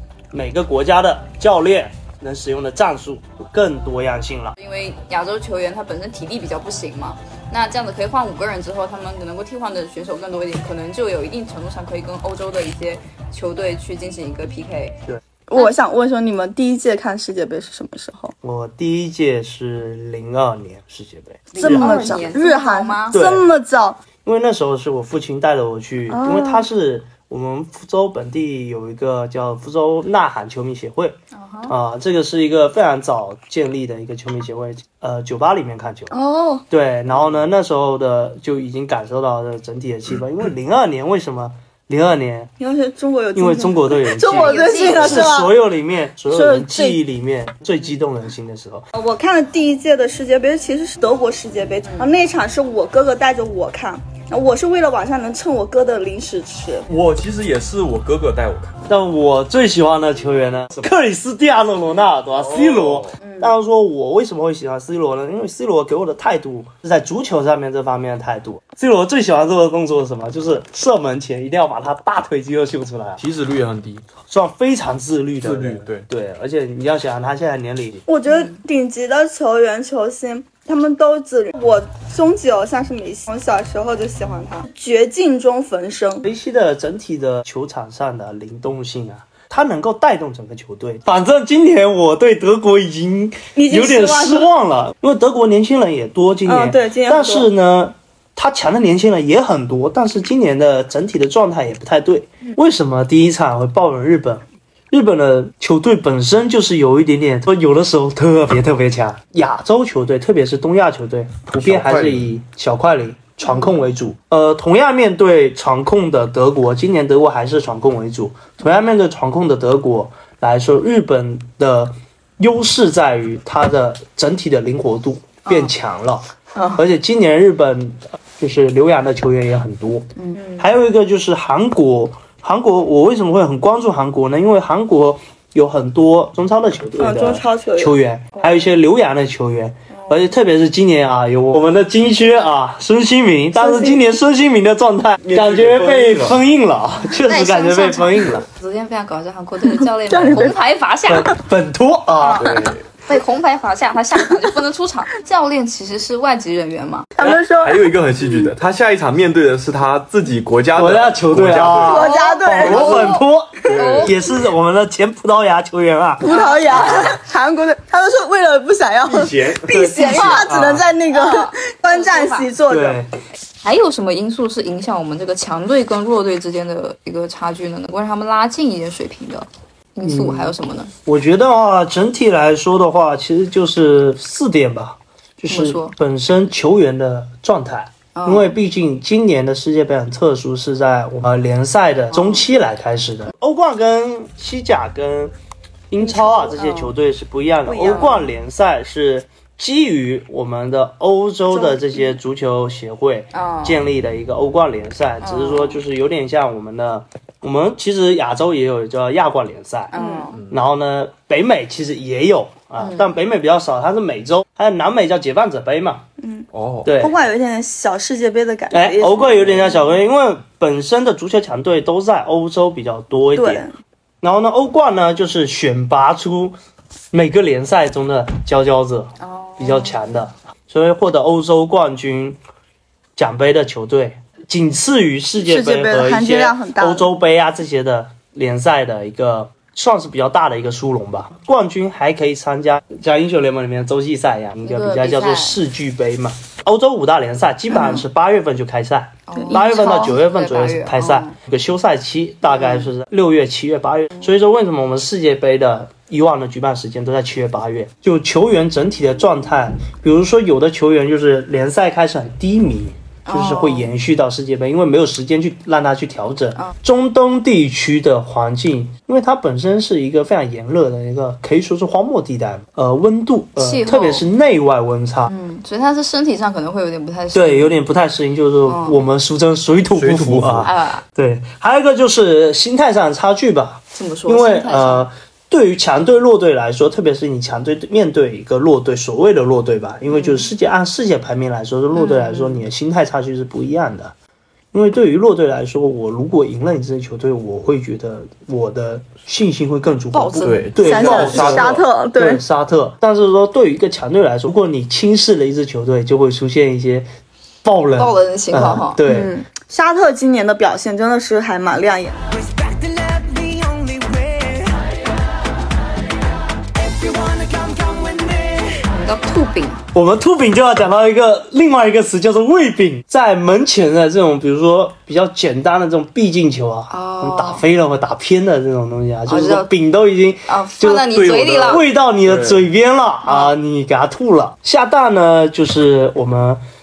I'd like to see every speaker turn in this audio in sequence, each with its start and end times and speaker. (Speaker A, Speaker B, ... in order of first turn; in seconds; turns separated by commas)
Speaker A: 0.3-4.5, Speaker B: 4.6-14.9, Speaker C: 15.5-18.3, Speaker A: 18.4-22.3, Speaker B: 21.5-23.2, Speaker C: 21.6-24.0, Speaker A: 23.1-23.5, Speaker A: 24.2-31.1, Speaker C: 26.1-26.6, Speaker B: 31.3-31.7, Speaker A: 31.7-36.1, Speaker C: 36.1-36.6, Speaker A: 36.7-42.5, Speaker C: 42.6-45.5, Speaker A: 43.4-48.9, Speaker B: 44.3-45.4, Speaker C: 46.3-47.0, Speaker C: 48.9-56.9, Speaker B: 51.9-52.1, Speaker D: 56.9-58.7, Speaker A: 58.9-73.2, Speaker D: 62.4-63.1, Speaker B: 63.2-63.5, Speaker D: 73.2-74.0, Speaker A: 74.3-78.0, Speaker D: 75.4-76.1, Speaker C: 78.1-86.3, Speaker B: 78.3-78.5, Speaker A: 86.2-148.5, Speaker C: 93.6-94.5, Speaker C: 96.5-97.5, Speaker D: 111.6-112.3, Speaker B: 125.5-125.7, Speaker C: 137.0-138.6, Speaker C: 143.6-144.0, Speaker D: 145.2-146.4, Speaker B: 147.2-151.3, Speaker C: 149.8-150.6, Speaker A: 151.1-152.5, Speaker D: 152.4-152.8, Speaker B: 152.5-157.1, Speaker C: 157.2-158.2, Speaker D: 157.2-162.1, Speaker A: 160.7-166.3, Speaker C: 161.8-163.2, Speaker B: 161.9-164.2, Speaker D: 163.7-164.2, Speaker C: 166.2-173.0, Speaker B: 166.3-167.1, Speaker D: 169.1-170.8, Speaker B: 170.0-170.6, Speaker B: 171.1-172.5, Speaker A: 172.7-173.1, Speaker B: 173.6-180.9, Speaker A: 180.0-180.6, Speaker A: 181.1-195.3, Speaker B: 185.5-185.9, Speaker B: 188.2-188.6, Speaker B: 192.1-192.4, Speaker A: 195.9-209.9, Speaker B: 196.1-196.9, Speaker C: 197.7-198.2, Speaker B: 197.9-198.1, Speaker C: 201.5-202.0, Speaker B: 203.3-203.9, Speaker B: 205.2-205.8, Speaker B: 209.9-210.4, Speaker C: 209.9-210.3, Speaker D: 210.3-210.6, Speaker A: 210.5-216.1, Speaker B: 212.8-213.1, Speaker C: 216.2-219.8, Speaker D: 216.5-217.0, Speaker A: 216.8-217.2, Speaker A: 218.7-223.6, Speaker C: 223.3-223.7, Speaker A: 224.2-226.6, Speaker A: 227.1-232.4, Speaker B: 229.2-230.0, Speaker A: 233.2-275.3, Speaker C: 235.4-237.1, Speaker B: 244.7-245.6, Speaker B: 249.3-251.3, Speaker C: 249.4-250.1, Speaker B: 252.6-252.9, Speaker B: 263.3-263.9, Speaker B: 273.6-274.3, Speaker B: 275.3-277.7, Speaker A: 277.3-294.1, Speaker B: 278.7-279.0, Speaker D: 279.9-280.7, Speaker B: 280.6-281.1, Speaker B: 283.9-285.1, Speaker B: 290.1-290.5, Speaker B: 291.9-292.6, Speaker A: 294.7-307.1, Speaker B: 300.1-301.2, Speaker D: 300.4-301.9, Speaker C: 300.8-302.4, Speaker A: 307.6-309.3, Speaker B: 308.0-309.0, Speaker C: 309.1-312.2, Speaker E: 312.4-314.8, Speaker E: 316.8-318.8, Speaker B: 318.9-319.8, Speaker A: 319.9-336.6, Speaker B: 326.9-327.6, Speaker B: 329.3-329.7, Speaker B: 330.5-331.9, Speaker D: 331.1-332.7, Speaker B: 333.2-333.5